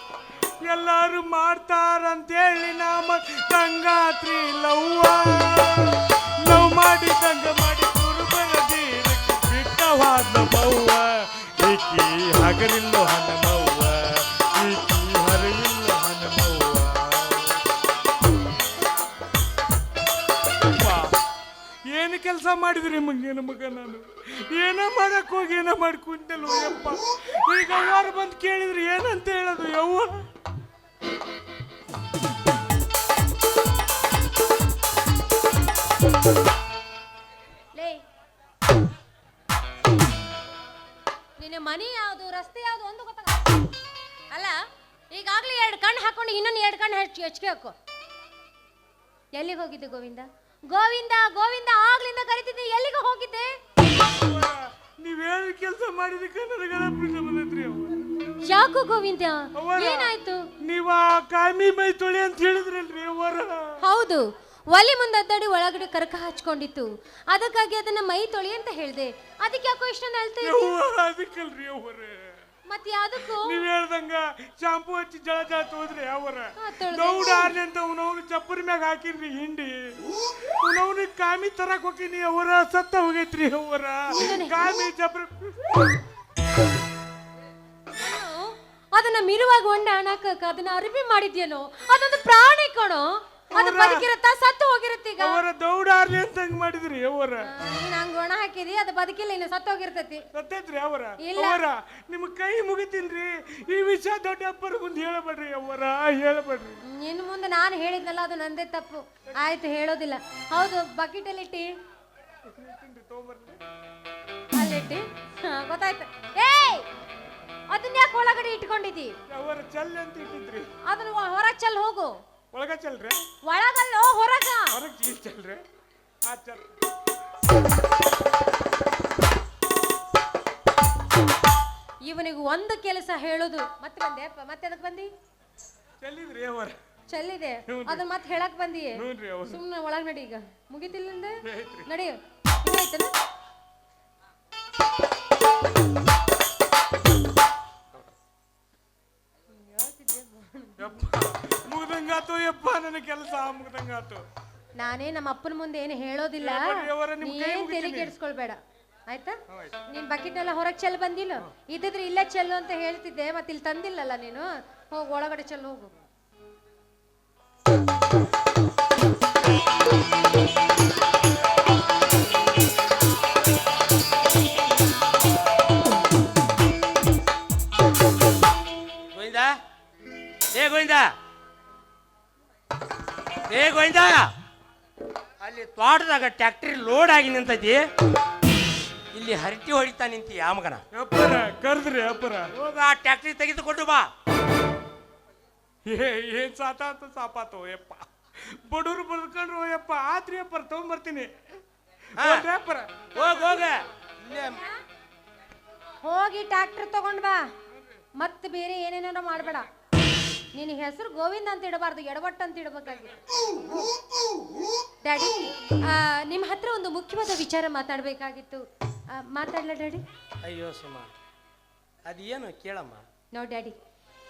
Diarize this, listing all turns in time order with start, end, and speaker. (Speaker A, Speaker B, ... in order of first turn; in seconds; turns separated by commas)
Speaker A: 0.6-17.6, Speaker A: 21.9-30.3, Speaker B: 37.7-38.0, Speaker B: 41.4-43.7, Speaker B: 44.3-44.5, Speaker B: 45.1-47.7, Speaker B: 49.3-53.5, Speaker A: 54.2-57.9, Speaker B: 58.4-60.4, Speaker A: 59.5-63.8, Speaker B: 63.8-70.7, Speaker A: 70.4-72.2, Speaker B: 72.7-73.6, Speaker A: 73.3-80.0, Speaker B: 76.6-77.5, Speaker A: 80.6-85.6, Speaker B: 84.1-84.6, Speaker B: 88.0-95.4, Speaker A: 93.5-94.1, Speaker A: 95.2-97.5, Speaker B: 97.4-100.2, Speaker A: 100.3-106.8, Speaker B: 101.2-101.6, Speaker B: 106.9-111.7, Speaker A: 112.6-113.6, Speaker B: 114.5-116.9, Speaker B: 117.7-119.1, Speaker A: 119.3-120.7, Speaker B: 120.8-122.2, Speaker A: 122.5-123.2, Speaker B: 123.4-124.8, Speaker A: 124.7-125.6, Speaker A: 126.2-126.7, Speaker B: 132.0-135.1, Speaker A: 136.0-136.8, Speaker B: 137.1-141.3, Speaker A: 137.7-138.0, Speaker A: 138.9-139.6, Speaker A: 141.4-141.8, Speaker B: 141.8-143.1, Speaker B: 149.5-150.9, Speaker A: 150.8-154.2, Speaker B: 154.8-159.3, Speaker A: 156.4-158.1, Speaker B: 159.9-165.9, Speaker C: 179.1-179.5, Speaker C: 180.5-181.1, Speaker C: 183.5-184.2, Speaker C: 185.4-187.8, Speaker C: 189.1-190.8, Speaker A: 190.9-192.5, Speaker C: 192.6-194.0, Speaker A: 195.8-201.3, Speaker C: 202.2-202.5, Speaker A: 202.2-203.1, Speaker C: 203.1-204.6, Speaker B: 204.4-204.7, Speaker B: 206.0-207.4, Speaker B: 208.2-209.7, Speaker B: 210.5-213.3, Speaker B: 215.0-218.6, Speaker B: 219.1-220.0, Speaker C: 220.4-221.1, Speaker C: 222.1-223.0, Speaker B: 223.3-223.8